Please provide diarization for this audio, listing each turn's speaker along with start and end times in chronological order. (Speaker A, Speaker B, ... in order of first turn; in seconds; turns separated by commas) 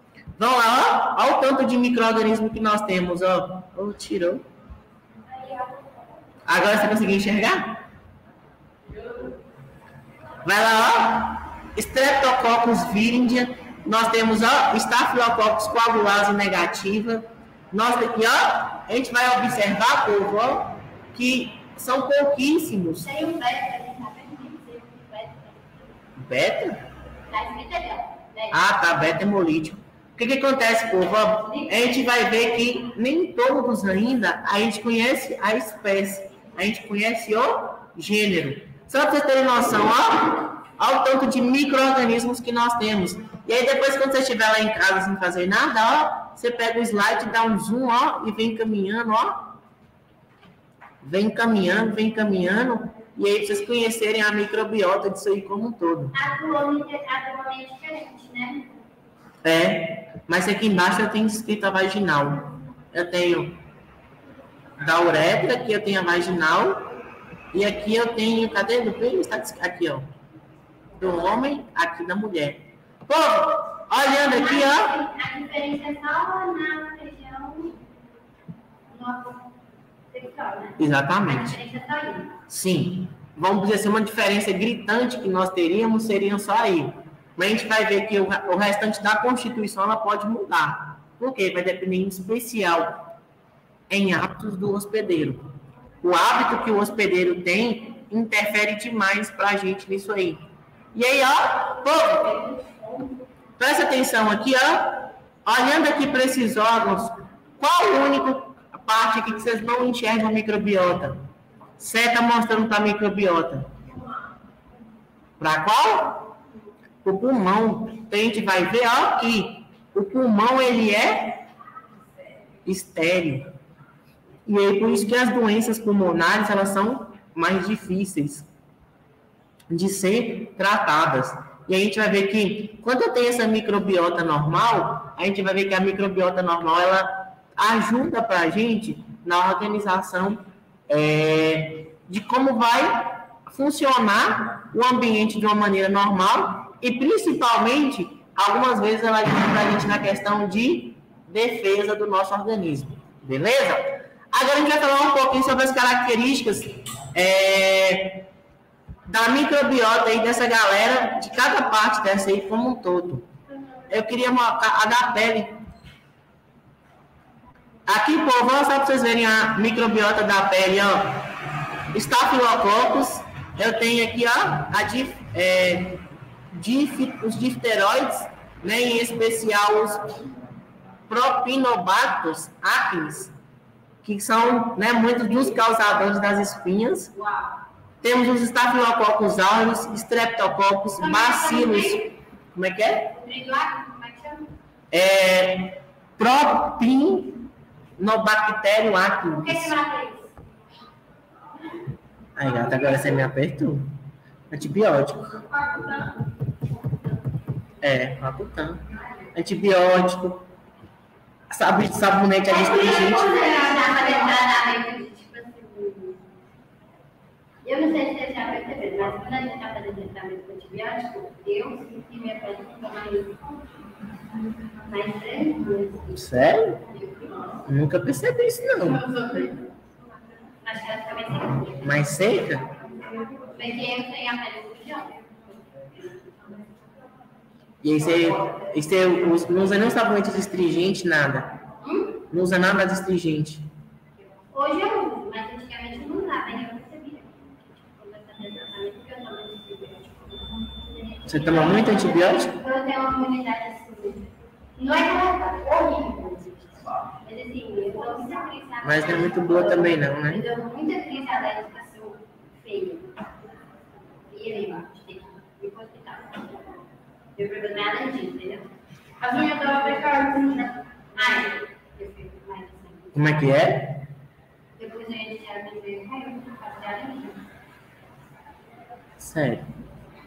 Speaker A: 0.4-4.4, Speaker B: 5.5-5.8, Speaker A: 6.5-7.8, Speaker C: 8.9-9.3, Speaker A: 10.4-23.2, Speaker B: 23.0-25.8, Speaker A: 26.1-26.8, Speaker B: 27.3-28.6, Speaker A: 28.5-49.6, Speaker A: 51.0-56.1, Speaker B: 56.1-58.7, Speaker A: 59.4-63.6, Speaker A: 64.8-66.9, Speaker A: 67.5-70.1, Speaker A: 71.0-74.9, Speaker B: 74.2-77.8, Speaker B: 78.9-79.3, Speaker B: 80.1-82.4, Speaker A: 80.8-81.6, Speaker A: 82.5-93.1, Speaker A: 93.9-102.5, Speaker A: 103.6-111.2, Speaker A: 111.8-113.7, Speaker A: 115.4-116.3, Speaker A: 117.0-121.5, Speaker A: 122.6-123.5, Speaker A: 124.5-128.5, Speaker A: 129.7-158.3, Speaker A: 159.1-163.3, Speaker A: 163.9-165.6, Speaker A: 167.8-171.3, Speaker A: 171.9-180.3, Speaker A: 181.1-183.3, Speaker A: 184.0-187.1, Speaker C: 187.2-187.5, Speaker A: 188.0-193.2, Speaker B: 191.0-192.1, Speaker B: 193.2-194.5, Speaker A: 194.9-199.8, Speaker B: 199.2-200.3, Speaker A: 202.3-203.9, Speaker A: 204.5-205.4, Speaker A: 207.8-210.4, Speaker A: 211.5-213.6, Speaker B: 212.5-216.2, Speaker B: 217.6-223.4, Speaker B: 224.8-226.1, Speaker A: 226.1-226.8, Speaker C: 227.2-227.6, Speaker A: 227.7-229.0, Speaker C: 228.8-229.7, Speaker B: 230.6-232.0, Speaker A: 231.8-232.7, Speaker B: 233.5-236.5, Speaker A: 237.8-241.6, Speaker B: 241.8-242.2, Speaker A: 242.3-243.7, Speaker B: 244.5-263.1, Speaker A: 251.2-252.5, Speaker A: 258.8-260.4, Speaker B: 264.3-266.7, Speaker B: 267.4-268.7, Speaker C: 269.2-270.7, Speaker B: 270.6-273.4, Speaker A: 273.1-274.0, Speaker B: 274.8-277.4, Speaker A: 279.2-279.7